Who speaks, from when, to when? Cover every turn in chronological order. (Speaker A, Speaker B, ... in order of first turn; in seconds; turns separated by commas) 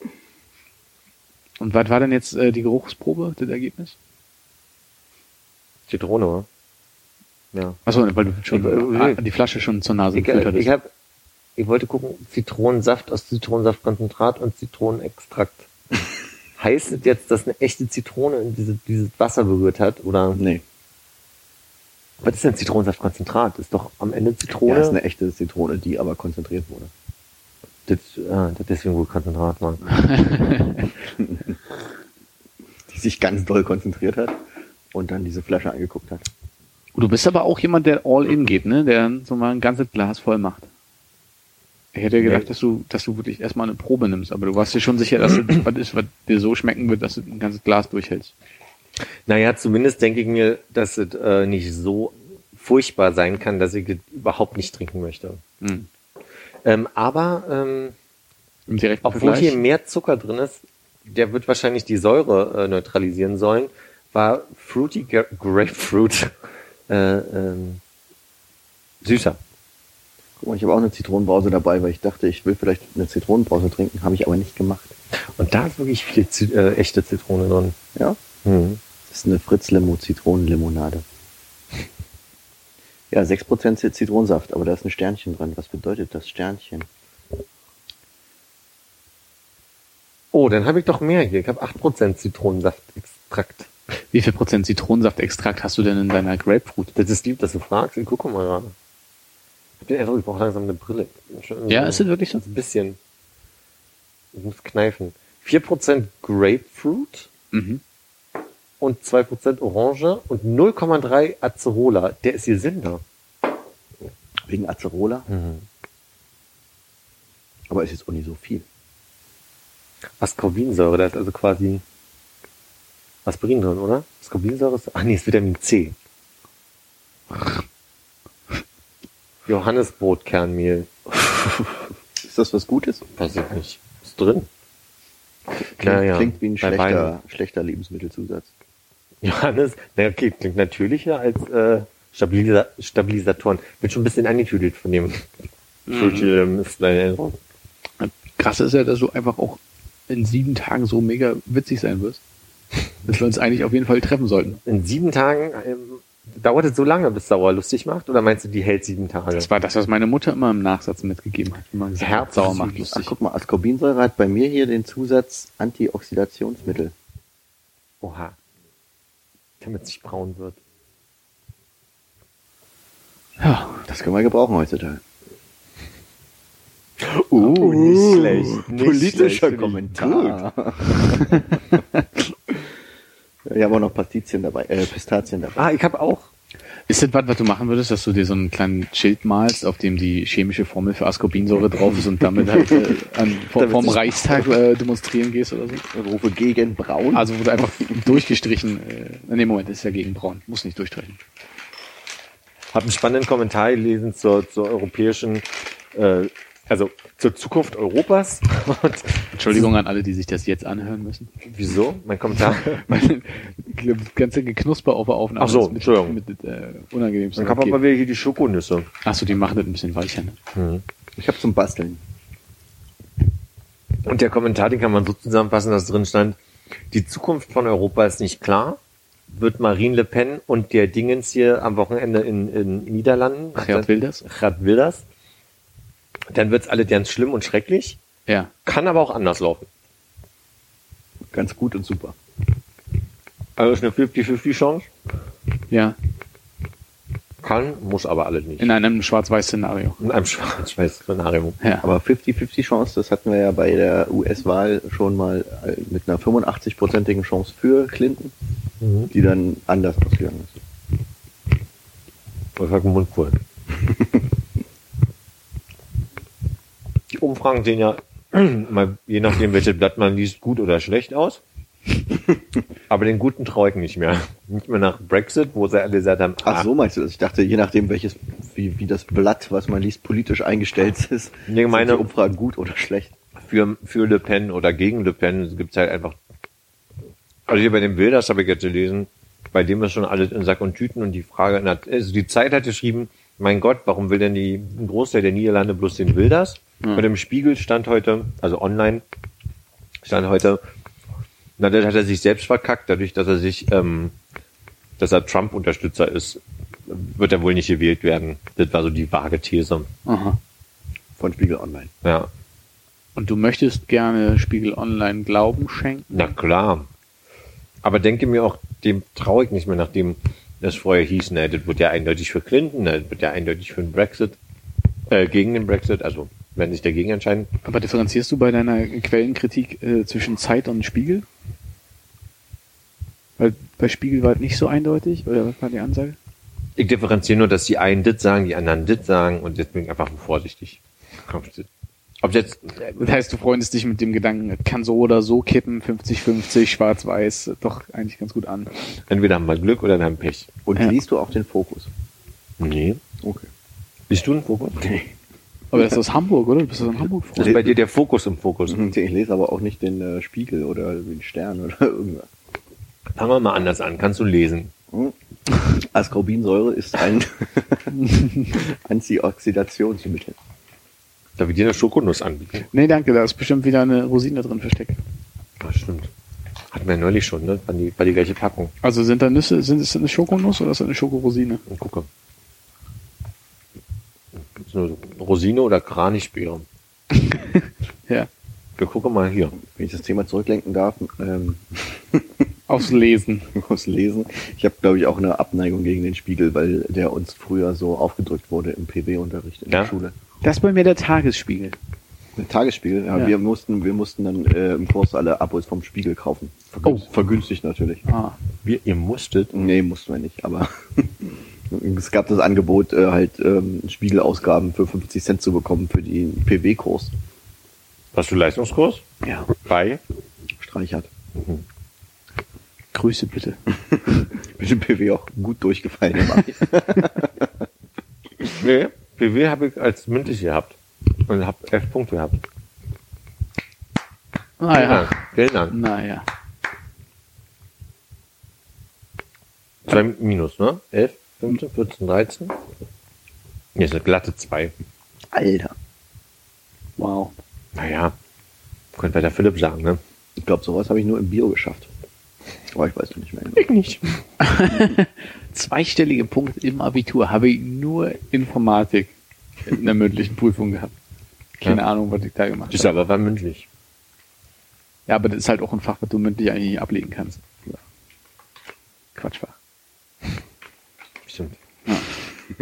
Speaker A: 1.6-4.0, Speaker B: 5.9-6.5, Speaker B: 7.5-7.8, Speaker A: 7.9-10.7, Speaker B: 8.5-9.2, Speaker B: 10.1-10.9, Speaker B: 11.6-15.7, Speaker B: 16.6-20.4, Speaker C: 20.4-20.6, Speaker B: 22.2-25.0, Speaker C: 24.7-26.9, Speaker B: 27.9-29.8, Speaker A: 29.9-30.9, Speaker C: 31.2-31.6, Speaker C: 32.9-34.4, Speaker C: 34.9-36.3, Speaker A: 37.0-40.7, Speaker A: 41.9-48.3, Speaker B: 49.3-55.4, Speaker A: 55.6-55.9, Speaker B: 56.6-57.9, Speaker A: 58.7-59.6, Speaker B: 59.0-66.3, Speaker B: 66.9-67.8, Speaker B: 69.0-69.4, Speaker C: 70.4-74.9, Speaker B: 75.4-77.8, Speaker B: 78.5-78.8, Speaker C: 79.1-81.0, Speaker C: 83.1-86.9, Speaker B: 90.3-93.7, Speaker A: 94.1-97.0, Speaker B: 97.0-98.7, Speaker B: 99.8-103.0, Speaker A: 101.7-102.4, Speaker B: 104.3-107.3, Speaker A: 107.5-107.8, Speaker B: 108.8-113.0, Speaker C: 114.5-115.3, Speaker B: 115.3-115.7, Speaker C: 117.7-118.7, Speaker B: 120.2-121.8, Speaker B: 123.2-126.0, Speaker A: 127.3-127.6, Speaker B: 129.5-130.9, Speaker C: 132.2-133.1, Speaker B: 133.2-134.5, Speaker C: 135.7-138.5, Speaker B: 135.8-137.1, Speaker B: 139.2-145.3, Speaker A: 145.9-146.3, Speaker B: 145.9-147.4, Speaker A: 148.0-152.2, Speaker A: 153.1-154.6, Speaker B: 154.7-159.5, Speaker A: 159.3-163.1, Speaker B: 162.0-162.7, Speaker C: 162.8-166.9, Speaker B: 168.0-168.4, Speaker B: 169.6-170.6, Speaker A: 173.4-173.8, Speaker C: 173.9-175.0, Speaker B: 177.2-180.4, Speaker C: 177.3-181.6, Speaker A: 181.0-181.5, Speaker C: 183.5-185.6, Speaker B: 185.6-186.3, Speaker A: 186.9-195.8, Speaker B: 193.6-194.5, Speaker C: 195.9-197.3, Speaker A: 197.1-201.2, Speaker B: 202.7-209.7, Speaker A: 209.3-211.3, Speaker B: 211.4-212.9, Speaker A: 212.5-217.8, Speaker B: 215.4-216.2, Speaker B: 217.4-218.9, Speaker A: 219.0-220.4, Speaker B: 220.6-220.8, Speaker C: 221.2-222.0, Speaker B: 224.0-226.4, Speaker B: 226.9-228.8, Speaker B: 229.3-235.1, Speaker A: 233.6-234.2, Speaker B: 236.3-238.0, Speaker B: 238.7-239.7, Speaker C: 241.3-242.2, Speaker B: 243.6-244.9, Speaker A: 245.7-246.0, Speaker B: 247.4-248.7, Speaker A: 248.6-250.0, Speaker B: 250.0-251.6, Speaker A: 251.6-251.9, Speaker C: 251.8-258.3, Speaker B: 258.8-259.1, Speaker C: 259.1-260.6, Speaker B: 262.6-263.4, Speaker B: 267.1-271.4, Speaker B: 272.9-276.7, Speaker C: 276.4-283.2, Speaker B: 281.5-282.1, Speaker B: 283.4-286.2, Speaker B: 287.5-299.0, Speaker B: 300.0-300.6, Speaker B: 301.6-304.1, Speaker B: 305.0-309.9, Speaker A: 310.1-310.4, Speaker C: 311.2-311.9, Speaker B: 312.0-312.3, Speaker A: 313.2-316.3, Speaker B: 316.1-316.9, Speaker B: 317.8-324.4, Speaker B: 325.1-327.5, Speaker A: 327.6-331.3, Speaker A: 333.4-336.2, Speaker B: 336.8-341.7, Speaker B: 342.2-342.9, Speaker A: 342.8-348.9, Speaker B: 349.1-350.5, Speaker C: 350.7-351.9, Speaker B: 352.6-353.0, Speaker C: 353.2-353.5, Speaker B: 354.1-354.8, Speaker C: 354.8-355.1, Speaker A: 355.7-357.6, Speaker B: 357.4-358.9, Speaker C: 358.7-362.3, Speaker B: 363.2-364.7, Speaker C: 364.9-370.4, Speaker B: 371.4-372.7, Speaker A: 372.7-375.0, Speaker B: 375.6-376.1, Speaker B: 376.7-378.7, Speaker A: 378.8-381.6, Speaker B: 381.7-382.1, Speaker B: 384.6-386.6, Speaker A: 387.1-388.3, Speaker B: 388.8-389.6, Speaker C: 389.7-392.5, Speaker A: 392.7-393.5, Speaker C: 393.5-400.2, Speaker A: 400.4-401.8, Speaker C: 402.4-408.0, Speaker A: 408.1-408.4, Speaker B: 408.6-409.5, Speaker C: 409.5-417.1, Speaker B: 418.1-420.0, Speaker C: 420.6-421.1, Speaker B: 421.4-421.6, Speaker A: 422.9-423.6, Speaker C: 424.4-427.6, Speaker B: 428.6-432.4, Speaker A: 434.6-436.3, Speaker B: 434.7-435.8, Speaker B: 439.9-442.6, Speaker B: 443.8-444.7, Speaker C: 445.3-445.8, Speaker A: 447.0-447.3, Speaker B: 447.8-448.1, Speaker B: 449.0-450.0, Speaker C: 450.4-451.9, Speaker C: 452.7-453.6, Speaker B: 453.6-454.2, Speaker A: 454.4-459.1, Speaker A: 459.7-460.9, Speaker A: 461.6-462.9, Speaker B: 462.7-463.7, Speaker A: 465.1-467.4, Speaker A: 469.2-469.6, Speaker B: 471.3-471.6